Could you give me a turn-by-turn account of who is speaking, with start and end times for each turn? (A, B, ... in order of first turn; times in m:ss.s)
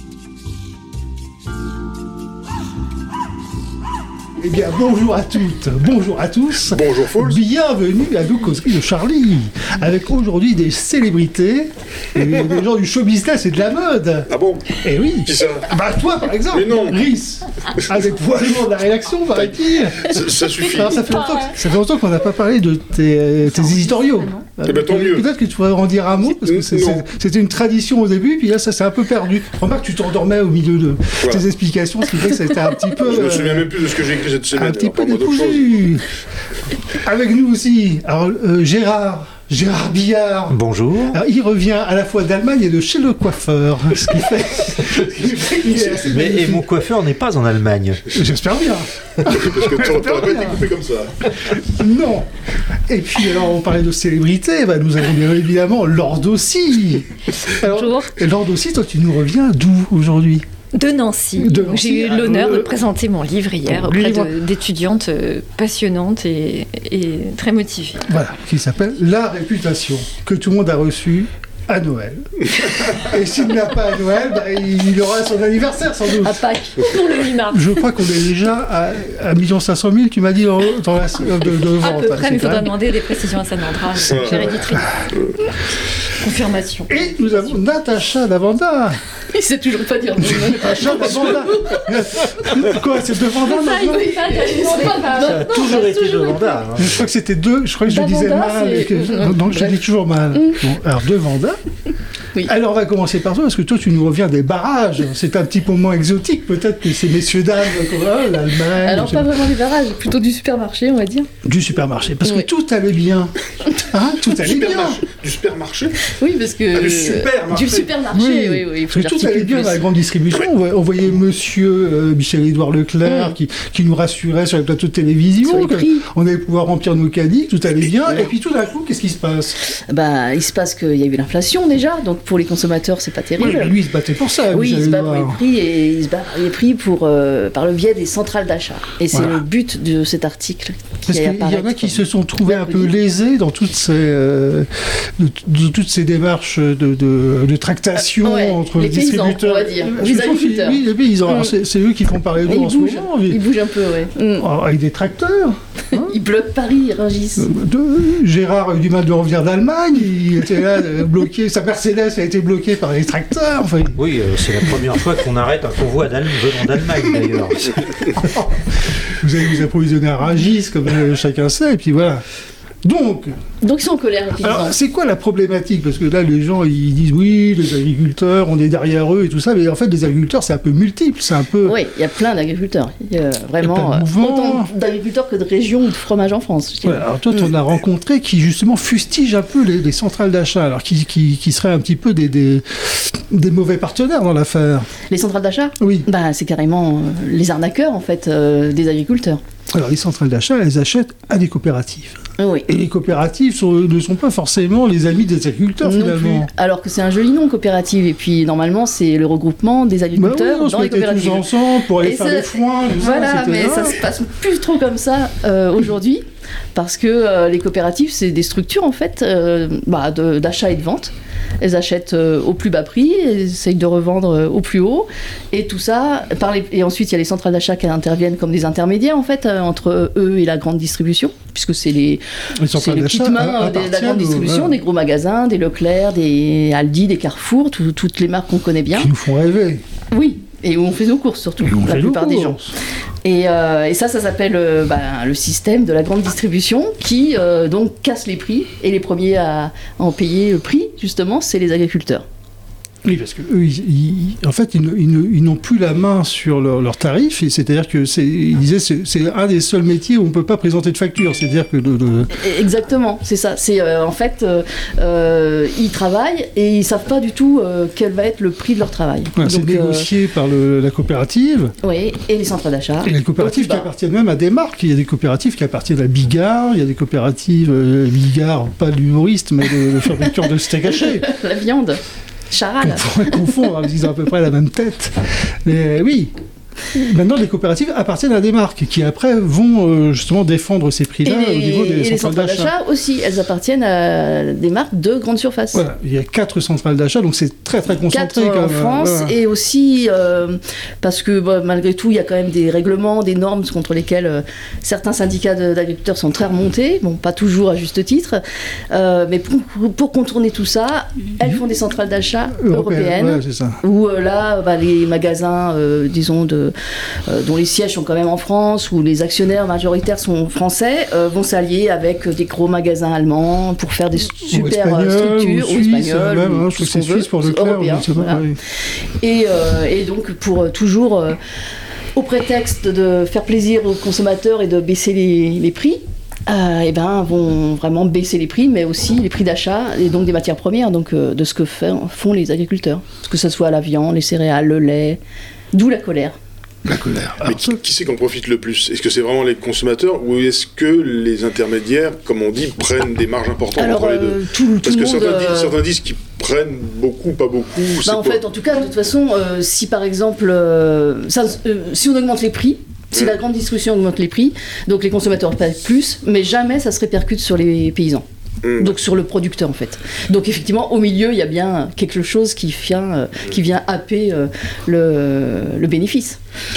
0:04.4-0:14.3 A
0:06.7-0:07.4 B
0:14.3-0:15.7 B
0:14.8-0:33.8 A
0:16.5-0:17.0 B
0:20.0-0:21.2 B
0:21.1-0:21.5 C
0:23.5-0:24.4 C
0:24.6-0:25.3 B
0:26.3-0:27.0 B
0:33.0-0:35.7 B
0:34.5-0:36.1 A
0:37.0-0:40.6 A
0:40.5-0:41.2 D
0:41.1-0:46.7 A
0:46.0-0:48.1 D
0:48.1-0:50.7 A
0:49.3-0:51.5 B
0:51.6-0:52.3 A
0:52.9-1:00.5 A
0:57.6-0:58.1 C
1:00.7-1:08.1 C
1:01.4-1:02.8 A
1:03.7-1:04.3 A
1:08.1-1:16.5 A
1:16.2-1:17.7 C
1:16.4-1:16.8 E
1:17.5-1:22.8 A
1:21.8-1:25.4 C
1:24.0-1:25.4 B
1:26.1-1:27.6 C
1:26.9-1:29.0 A
1:29.3-1:32.6 E
1:30.2-1:34.1 A
1:33.5-1:36.4 C
1:33.5-1:36.5 E
1:35.0-1:37.0 D
1:36.8-1:41.6 A
1:37.9-1:39.8 E
1:40.3-1:40.6 E
1:42.5-1:49.3 A
1:48.8-1:51.3 E
1:51.4-1:55.0 A
1:54.3-1:56.1 B
1:56.0-1:59.8 E
1:56.8-1:57.7 B
1:56.8-2:09.6 A
2:03.0-2:03.4 E
2:05.4-2:06.0 E
2:09.9-2:13.8 E
2:13.4-2:15.4 A
2:14.5-2:22.9 E
2:19.1-2:19.4 A
2:21.1-2:33.4 A
2:28.2-2:31.5 E
2:32.5-2:34.5 E
2:34.4-2:36.2 A
2:35.9-2:37.5 E
2:37.4-2:44.0 A
2:44.0-2:48.1 D
2:48.1-2:52.2 A
2:52.8-2:53.4 A
2:53.6-2:54.8 E
2:54.4-3:01.8 A
3:01.6-3:07.5 E
3:03.6-3:04.7 A
3:06.8-3:14.9 A
3:15.1-3:19.4 E
3:15.8-3:16.1 A
3:19.7-3:26.5 A
3:22.4-3:22.7 E
3:25.8-3:31.5 E
3:30.2-3:34.0 A
3:32.0-3:59.1 E
3:52.6-3:54.8 A
3:58.9-3:59.8 A
4:00.1-4:02.6 E
4:01.6-4:02.7 A
4:03.2-4:12.2 E
4:13.0-4:22.4 A
4:22.4-4:30.1 E
4:29.4-4:31.7 A
4:31.8-4:33.9 E
4:33.0-4:41.3 A
4:40.9-4:42.0 E
4:42.5-4:43.6 E
4:42.8-4:46.3 A
4:46.9-4:52.7 A
4:51.2-4:55.8 E
4:55.7-4:59.3 A
4:58.1-5:16.7 E
5:12.5-5:13.8 A
5:17.3-5:28.5 E
5:24.4-5:28.6 A
5:29.2-5:31.4 E
5:32.2-5:45.2 E
5:45.7-5:46.4 E
5:46.8-5:47.8 A
5:47.4-5:58.4 B
5:53.8-5:55.8 E
5:58.0-6:08.2 E
6:08.6-6:09.0 B
6:08.8-6:16.4 E